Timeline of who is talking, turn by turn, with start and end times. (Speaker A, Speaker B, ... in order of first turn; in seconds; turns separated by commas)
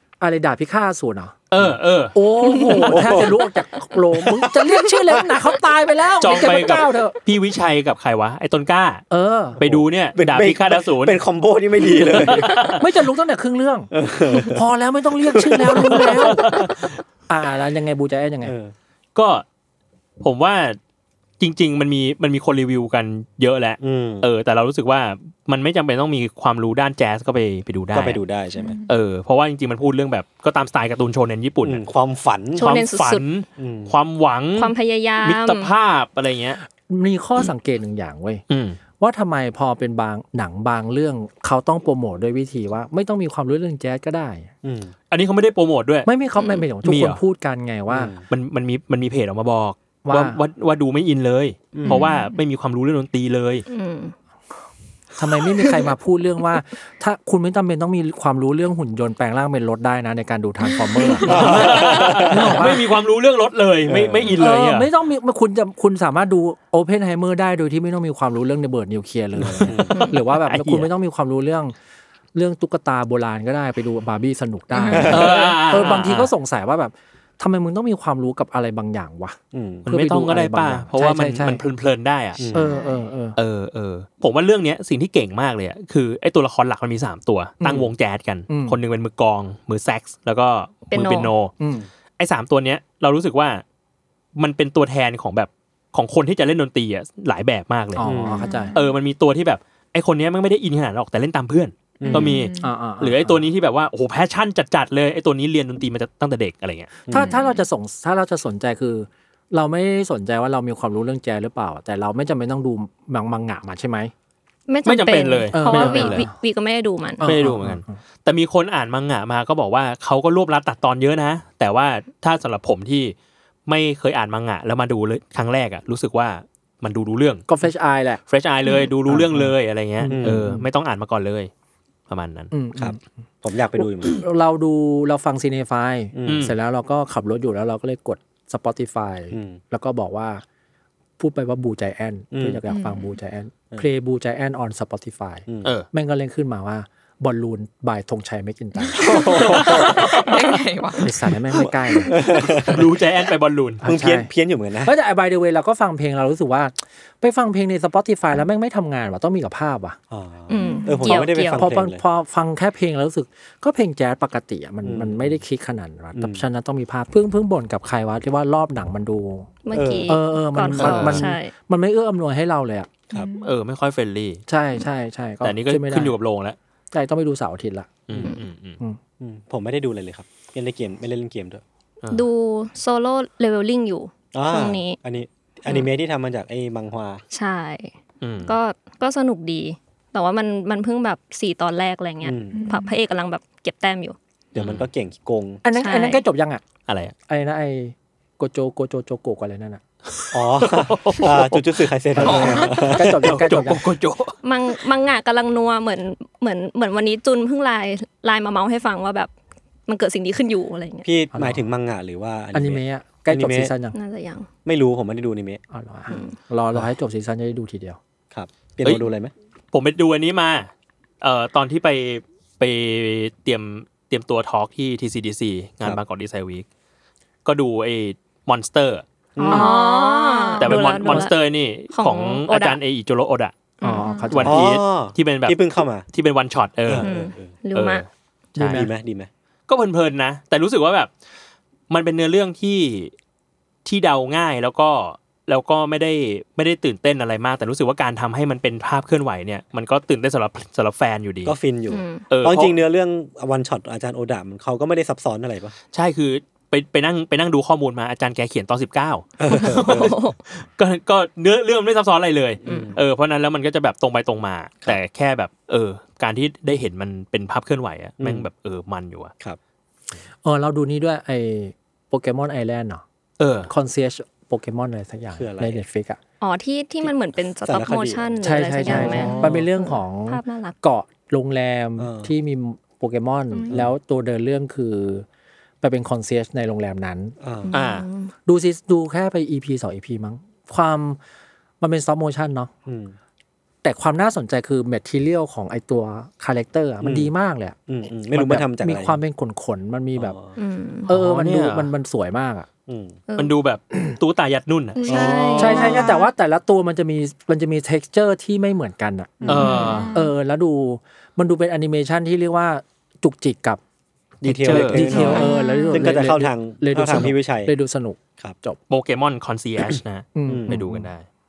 Speaker A: 0.2-1.4, Speaker B: 1.5-2.2, Speaker A: 2.1-7.2, Speaker C: 2.7-3.4, Speaker B: 2.8-3.2, Speaker C: 4.2-5.2, Speaker B: 6.2-9.0, Speaker A: 9.1-9.6, Speaker B: 9.6-11.2, Speaker C: 9.6-12.7, Speaker B: 12.0-12.8, Speaker A: 12.6-16.6, Speaker C: 13.9-14.6, Speaker C: 15.2-16.4, Speaker B: 15.8-16.8, Speaker A: 17.3-18.6, Speaker C: 18.4-18.7, Speaker B: 19.1-19.4, Speaker B: 20.2-20.8, Speaker B: 21.4-28.2, Speaker C: 23.8-24.3, Speaker C: 27.9-28.8, Speaker D: 28.5-28.9, Speaker B: 28.9-31.8, Speaker C: 31.6-32.8, Speaker E: 32.6-33.2, Speaker B: 32.6-36.6, Speaker C: 33.6-33.9, Speaker E: 34.6-35.7, Speaker A: 36.9-38.4, Speaker B: 38.5-38.8, Speaker A: 39.0-44.5, Speaker C: 44.6-44.9, Speaker B: 45.1-46.1, Speaker A: 46.0-48.1, Speaker E: 46.4-46.6, Speaker B: 46.8-47.2, Speaker C: 47.9-48.2, Speaker B: 48.3-53.7, Speaker A: 50.0-50.4, Speaker C: 51.7-52.0, Speaker E: 51.9-52.4, Speaker E: 53.7-54.1, Speaker A: 55.2-62.8, Speaker E: 60.7-61.2, Speaker C: 61.2-62.7, Speaker B: 61.3-64.9, Speaker C: 63.9-64.4, Speaker A: 64.4-71.7, Speaker C: 69.4-70.1, Speaker B: 69.5-70.9, Speaker E: 70.0-70.2, Speaker A: 72.3-81.6, Speaker D: 74.7-75.4, Speaker C: 74.9-75.4, Speaker B: 75.1-76.3, Speaker C: 79.5-79.9, Speaker B: 79.9-82.5, Speaker C: 82.4-82.7, Speaker A: 82.5-83.4, Speaker D: 82.6-83.0, Speaker B: 83.4-91.5, Speaker A: 87.6-87.9, Speaker A: 88.5-88.8, Speaker E: 90.9-91.3, Speaker A: 91.6-91.9, Speaker B: 92.2-93.6, Speaker B: 94.4-98.1, Speaker A: 98.0-98.7, Speaker C: 98.0-98.5, Speaker D: 98.4-98.9, Speaker B: 98.7-107.0, Speaker C: 102.0-102.5, Speaker D: 102.1-102.7, Speaker A: 102.5-103.4, Speaker C: 107.1-107.4, Speaker A: 107.1-114.1, Speaker D: 107.1-107.6, Speaker E: 114.7-117.3, Speaker B: 114.8-116.3, Speaker A: 115.5-116.3, Speaker A: 117.2-118.0, Speaker B: 117.2-123.1, Speaker B: 123.7-127.5, Speaker A: 127.5-128.2, Speaker B: 128.3-131.5, Speaker A: 129.1-130.6, Speaker C: 130.1-130.5, Speaker B: 132.1-132.5, Speaker A: 132.5-133.0, Speaker C: 132.8-134.2, Speaker A: 133.8-140.4, Speaker C: 136.1-136.5, Speaker B: 136.3-136.6, Speaker C: 139.3-139.6, Speaker A: 141.2-149.1, Speaker C: 142.3-142.6, Speaker D: 142.7-143.1, Speaker C: 149.0-150.3, Speaker D: 149.0-151.1, Speaker B: 149.3-150.4, Speaker A: 151.0-152.2, Speaker C: 151.5-152.9, Speaker B: 152.6-153.8, Speaker A: 153.8-154.3, Speaker C: 153.8-154.9, Speaker A: 154.8-160.0, Speaker C: 160.1-162.0, Speaker E: 160.5-161.6, Speaker D: 160.6-160.9, Speaker A: 161.1-169.5, Speaker C: 164.8-165.4, Speaker C: 166.1-166.4, Speaker E: 169.6-171.5, Speaker C: 169.7-170.2, Speaker A: 170.1-172.9, Speaker B: 170.8-171.3, Speaker D: 173.1-173.5, Speaker B: 173.4-174.4, Speaker A: 174.5-176.1, Speaker B: 175.4-176.6, Speaker A: 176.9-177.9, Speaker B: 178.1-178.8, Speaker C: 179.2-181.6, Speaker E: 182.1-185.0, Speaker C: 184.3-187.2, Speaker E: 187.3-187.9, Speaker B: 188.2-188.6, Speaker E: 188.4-194.2, Speaker C: 192.2-192.6, Speaker D: 192.5-192.9, Speaker C: 194.5-195.6, Speaker B: 194.6-194.9, Speaker A: 195.6-196.6, Speaker E: 195.7-196.2, Speaker B: 196.9-197.1, Speaker A: 197.3-199.8, Speaker B: 200.1-204.4, Speaker C: 200.3-203.4, Speaker A: 202.2-203.8, Speaker D: 202.2-202.9, Speaker E: 204.4-209.3, Speaker E: 209.9-211.1, Speaker C: 211.1-213.7, Speaker A: 211.3-211.6, Speaker A: 212.5-214.0, Speaker E: 213.9-214.5, Speaker C: 214.6-215.6, Speaker A: 215.7-218.0, Speaker E: 216.1-216.4, Speaker C: 218.3-219.3, Speaker B: 219.7-226.7, Speaker B: 227.4-229.0, Speaker C: 229.4-229.8, Speaker E: 229.4-231.4, Speaker D: 230.2-230.5, Speaker B: 230.6-233.6, Speaker E: 231.9-232.8, Speaker E: 233.8-234.5, Speaker A: 233.8-234.7, Speaker B: 234.3-237.1, Speaker C: 234.4-236.1, Speaker C: 236.9-237.5, Speaker E: 237.0-238.0, Speaker B: 237.7-238.9, Speaker A: 238.6-238.9, Speaker C: 238.7-239.3, Speaker B: 239.7-241.1, Speaker B: 241.9-243.1, Speaker B: 243.8-251.5, Speaker C: 251.4-255.7, Speaker E: 251.9-252.3, Speaker B: 252.3-252.8, Speaker B: 255.9-269.3, Speaker C: 259.4-260.2, Speaker E: 259.4-260.4, Speaker C: 262.6-263.0, Speaker E: 262.7-263.0, Speaker C: 268.2-268.5, Speaker A: 270.4-273.0, Speaker B: 273.4-273.7, Speaker A: 273.7-276.2, Speaker C: 275.3-275.8, Speaker E: 276.4-280.8, Speaker C: 277.0-279.5, Speaker A: 278.4-285.3, Speaker B: 278.9-279.6, Speaker C: 282.0-282.3, Speaker A: 285.8-287.4, Speaker C: 287.4-287.7, Speaker E: 287.6-288.3, Speaker B: 287.7-288.1, Speaker A: 288.4-291.2, Speaker A: 291.8-292.7, Speaker C: 292.9-293.1, Speaker A: 293.8-297.8, Speaker C: 297.0-297.3, Speaker C: 297.9-299.2, Speaker A: 298.3-300.4, Speaker C: 300.2-300.6, Speaker E: 300.6-301.1, Speaker A: 301.1-302.7, Speaker B: 301.1-301.9, Speaker C: 302.9-303.2, Speaker E: 303.3-303.6, Speaker B: 303.4-305.1, Speaker E: 304.9-306.2, Speaker C: 305.1-306.0, Speaker D: 305.1-306.2, Speaker A: 305.6-309.5, Speaker C: 309.4-309.9, Speaker B: 309.5-310.1, Speaker E: 309.5-310.1, Speaker D: 309.8-310.3, Speaker A: 310.1-313.8, Speaker C: 314.4-317.7, Speaker B: 314.4-315.3, Speaker A: 314.9-318.8, Speaker E: 315.1-316.1, Speaker B: 318.9-321.3, Speaker A: 320.4-321.1, Speaker C: 320.5-320.9